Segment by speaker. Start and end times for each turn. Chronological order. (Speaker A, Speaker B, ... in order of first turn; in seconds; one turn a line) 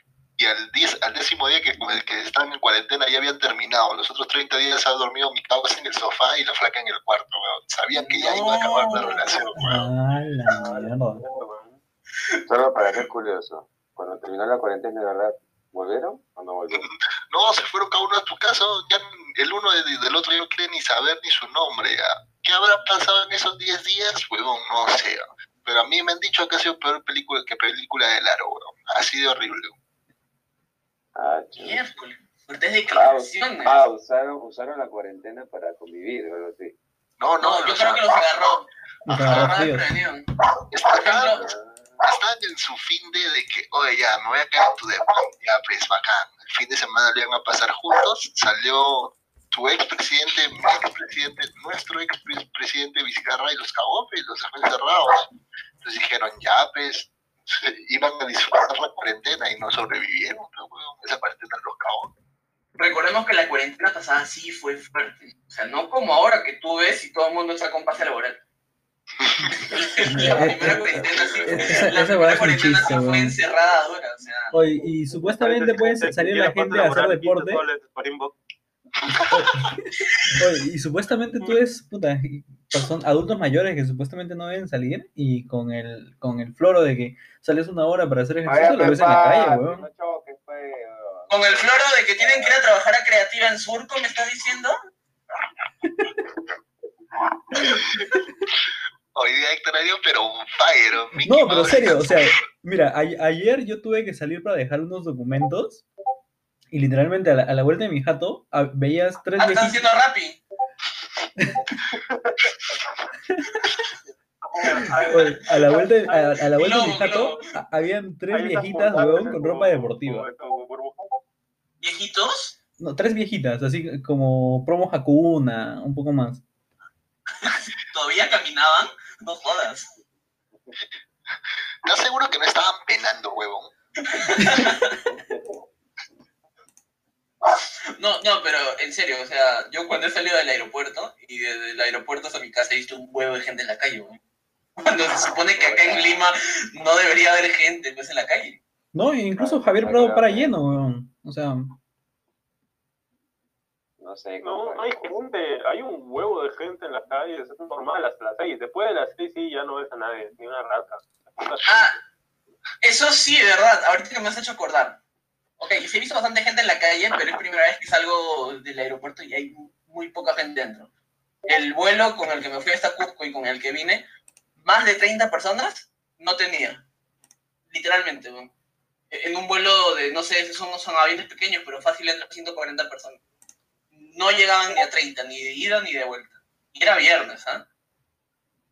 Speaker A: 0.4-9.7
Speaker B: 7.9-9.5
Speaker C: 9.6-11.2
Speaker D: 10.5-11.8
Speaker E: 12.5-16.9
Speaker A: 16.7-29.8
Speaker E: 31.1-31.8
Speaker B: 31.6-33.8
Speaker E: 32.9-36.8
Speaker A: 37.2-38.3
Speaker B: 37.4-38.7
Speaker C: 39.1-39.9
Speaker A: 39.1-39.6
Speaker B: 39.2-40.3
Speaker A: 40.7-55.3
Speaker B: 40.9-41.5
Speaker E: 41.4-42.0
Speaker A: 55.8-62.1
Speaker B: 62.8-68.4
Speaker A: 69.2-69.6
Speaker B: 69.5-74.5
Speaker C: 70.1-70.8
Speaker E: 70.1-72.0
Speaker C: 71.4-73.3
Speaker C: 74.5-77.6
Speaker D: 75.2-78.3
Speaker C: 79.2-89.8
Speaker E: 88.5-92.6
Speaker B: 91.3-94.7
Speaker A: 97.7-98.0
Speaker A: 99.1-102.4
Speaker C: 101.2-105.8
Speaker C: 106.7-109.8
Speaker B: 109.4-110.4
Speaker C: 111.4-111.7
Speaker D: 114.4-116.4
Speaker B: 114.9-115.3
Speaker C: 115.0-120.3
Speaker B: 116.5-117.3
Speaker D: 118.3-121.2
Speaker B: 121.8-122.5
Speaker C: 122.8-126.4
Speaker B: 127.4-129.9
Speaker A: 131.8-133.7
Speaker B: 134.0-135.0
Speaker E: 135.1-135.4
Speaker B: 138.0-144.2
Speaker B: 144.8-148.6
Speaker E: 145.6-146.2
Speaker C: 148.9-151.7
Speaker E: 149.3-150.5
Speaker E: 154.0-154.9
Speaker D: 154.4-162.0
Speaker B: 161.6-161.9
Speaker B: 162.8-165.0
Speaker B: 165.6-170.9
Speaker B: 171.5-174.1
Speaker B: 174.6-176.8
Speaker B: 177.7-178.5
Speaker B: 179.1-183.2
Speaker B: 183.9-187.7